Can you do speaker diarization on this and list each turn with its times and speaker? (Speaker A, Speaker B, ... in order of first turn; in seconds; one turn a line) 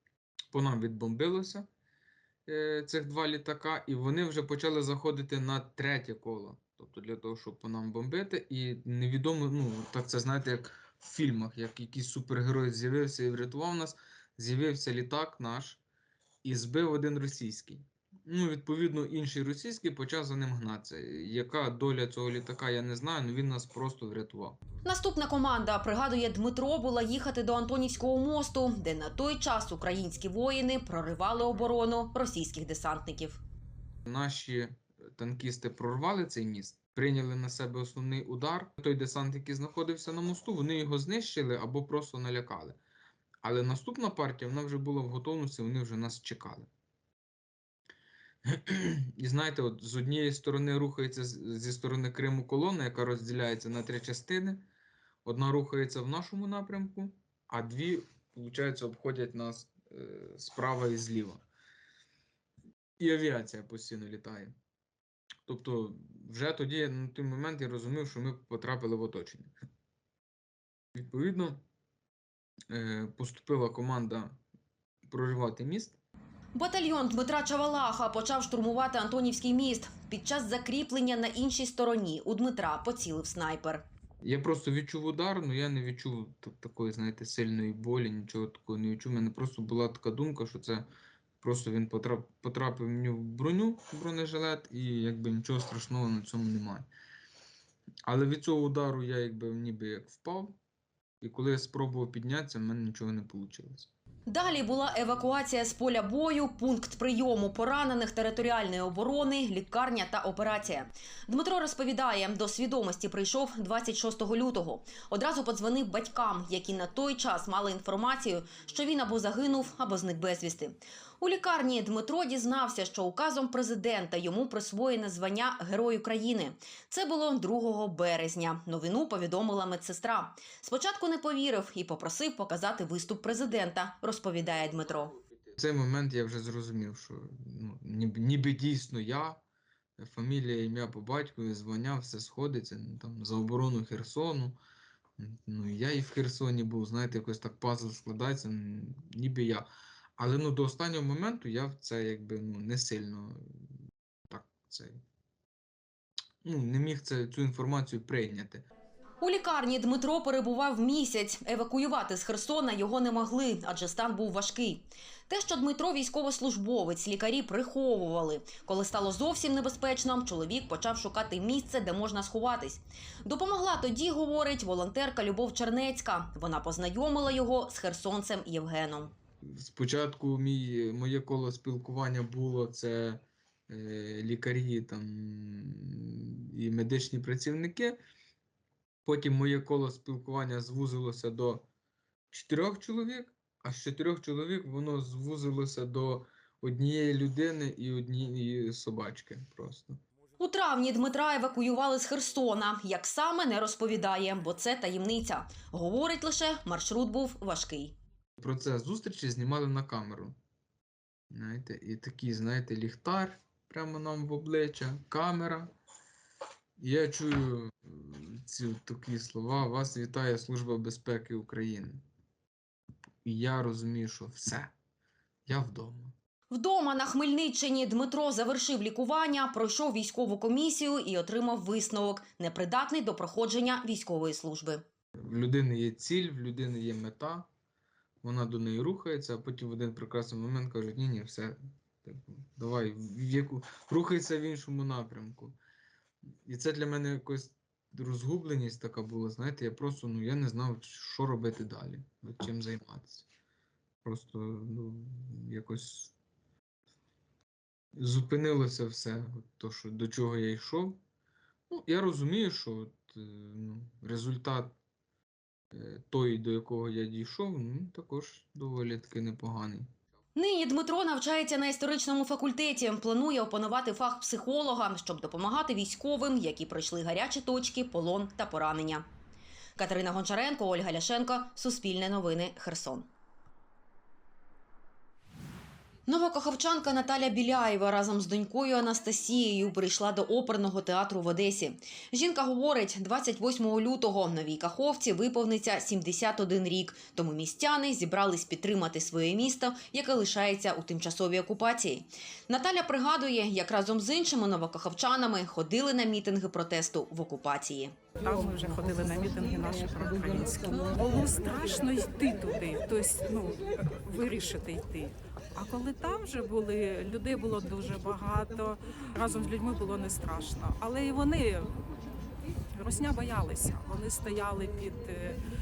Speaker A: 0.5-1.7
Speaker A: 2.5-15.8
Speaker A: 16.4-24.6
Speaker B: 24.8-33.4
Speaker A: 34.0-42.8
Speaker A: 43.4-46.7
Speaker A: 48.5-54.7
Speaker A: 55.2-61.4
Speaker A: 63.0-64.5
Speaker A: 65.5-69.5
Speaker A: 71.0-71.6
Speaker A: 72.7-74.4
Speaker A: 75.1-76.0
Speaker B: 76.5-83.8
Speaker A: 84.2-90.9
Speaker A: 91.4-96.9
Speaker A: 98.1-100.6
Speaker A: 101.2-103.9
Speaker B: 104.3-135.1
Speaker A: 135.6-139.4
Speaker A: 140.0-144.6
Speaker A: 145.2-153.7
Speaker A: 154.3-155.0
Speaker A: 156.4-158.6
Speaker B: 159.2-179.1
Speaker A: 179.5-188.0
Speaker A: 189.0-191.7
Speaker A: 192.3-200.0
Speaker B: 200.4-207.9
Speaker A: 208.4-210.4
Speaker A: 211.3-215.7
Speaker A: 216.8-222.0
Speaker A: 223.2-224.7
Speaker A: 225.5-226.1
Speaker B: 226.5-234.8
Speaker A: 235.2-237.5
Speaker A: 238.2-245.6
Speaker A: 246.4-253.2
Speaker A: 254.0-256.1
Speaker A: 258.0-261.0
Speaker A: 261.7-264.8
Speaker A: 265.7-269.9
Speaker B: 270.4-279.0
Speaker B: 279.8-283.1
Speaker B: 286.1-307.9
Speaker C: 308.2-321.7
Speaker C: 322.8-325.4